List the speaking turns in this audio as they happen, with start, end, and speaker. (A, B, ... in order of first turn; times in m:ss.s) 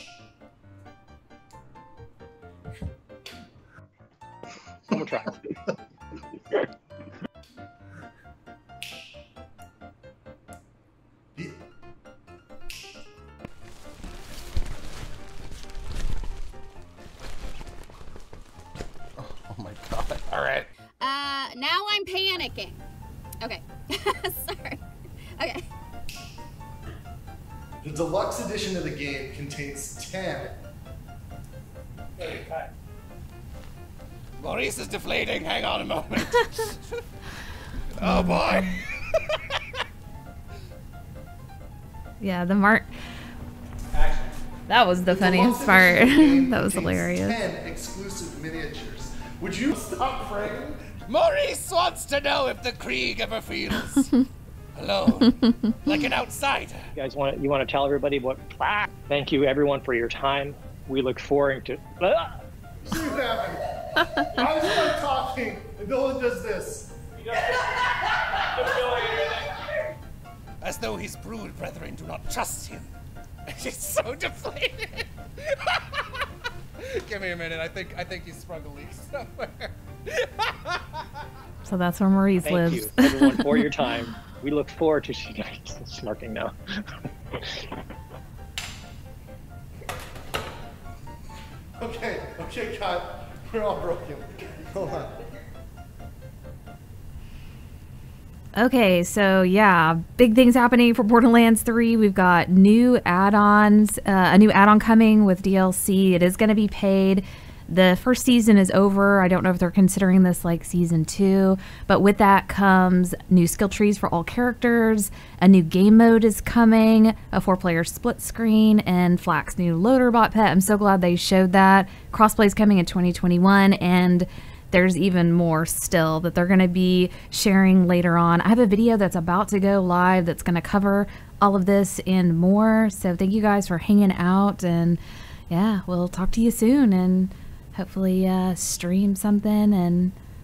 0:04.9-0:05.4 A
0:19.4-0:20.7 B
0:21.0-0:22.8 C
0:23.4-0:24.8 C
0:25.4-0:25.6 C
0:27.8-0:30.5 D
0:32.2-0:32.5 B
0:34.4-0:37.0 B
0:37.9-0:39.4 B
0:42.2-0:42.9 E
0:44.7-0:47.4 E
0:45.1-0:50.8 D
0:51.1-0:54.1 B
0:54.8-0:56.9 B
0:56.9-1:02.4 A
1:02.8-1:06.9 D
1:10.6-1:12.9 B
1:13.5-1:15.8 B
1:16.8-1:19.7 B
1:20.2-1:20.8 B
1:21.6-1:23.8 E
1:22.4-1:27.7 A
1:31.8-1:35.1 D
1:38.6-2:20.1 E